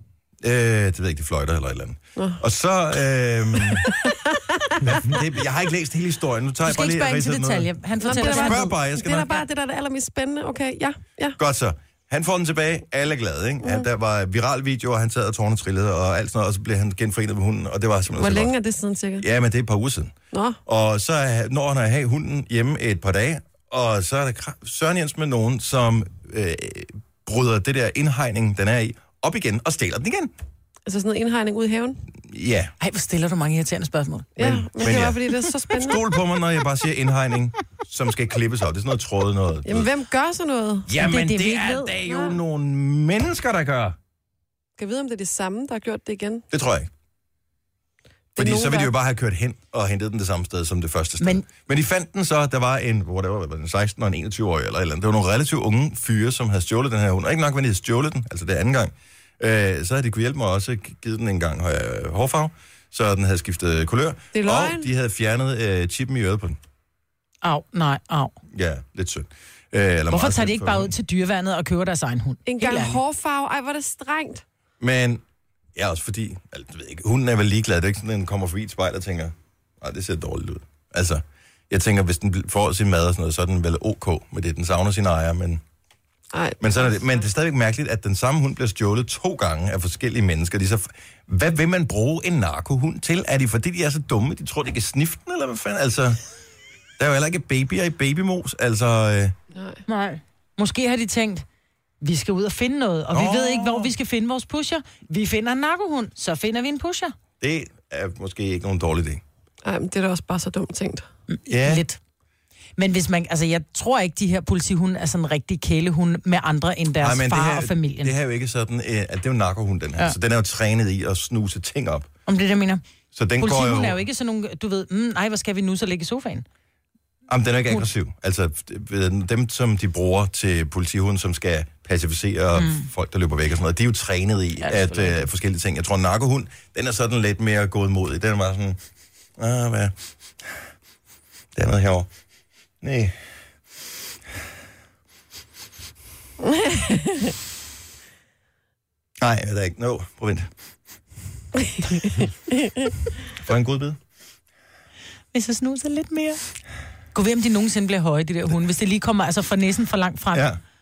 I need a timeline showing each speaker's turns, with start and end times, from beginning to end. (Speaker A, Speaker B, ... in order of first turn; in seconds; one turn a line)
Speaker A: 0.4-3.9
Speaker B: 3.7-5.0
Speaker A: 4.8-9.3
Speaker C: 6.6-8.7
Speaker B: 8.0-11.4
Speaker A: 11.4-18.5
Speaker B: 18.1-19.2
Speaker A: 19.2-20.1
Speaker B: 20.3-20.6
Speaker A: 20.6-30.3
Speaker B: 30.9-32.0
Speaker A: 32.2-32.7
Speaker C: 32.8-34.3
Speaker B: 34.4-36.0
Speaker A: 34.4-39.9
Speaker B: 39.6-41.0
Speaker A: 40.9-44.0
Speaker C: 41.0-42.0
Speaker B: 42.0-42.4
Speaker B: 44.8-46.4
Speaker A: 46.5-46.9
Speaker B: 48.3-48.9
Speaker A: 48.4-66.6
Speaker C: 51.2-51.4
Speaker B: 64.3-64.8
Speaker C: 67.4-68.3
Speaker A: 68.5-70.9
Speaker C: 70.1-73.0
Speaker B: 72.5-74.4
Speaker A: 74.8-75.2
Speaker A: 75.7-85.6
Speaker B: 86.3-86.9
Speaker A: 86.6-96.2
Speaker A: 97.0-99.3
Speaker B: 99.5-99.8
Speaker C: 99.9-101.4
Speaker C: 102.0-107.1
Speaker A: 103.1-103.9
Speaker A: 107.4-109.2
Speaker B: 109.6-111.1
Speaker C: 111.3-112.0
Speaker A: 111.5-111.8
Speaker C: 112.8-118.1
Speaker A: 117.0-122.1
Speaker C: 122.2-122.8
Speaker A: 123.1-124.0
Speaker C: 123.4-126.4
Speaker A: 127.3-138.8
Speaker C: 132.6-132.9
Speaker C: 134.6-135.2
Speaker A: 139.4-140.6
Speaker A: 141.5-142.1
Speaker A: 142.8-143.2
Speaker B: 146.4-147.3
Speaker A: 149.2-150.5
Speaker B: 151.8-152.9
Speaker A: 153.3-154.0
Speaker C: 155.3-156.4
Speaker C: 157.1-160.4
Speaker A: 160.3-160.6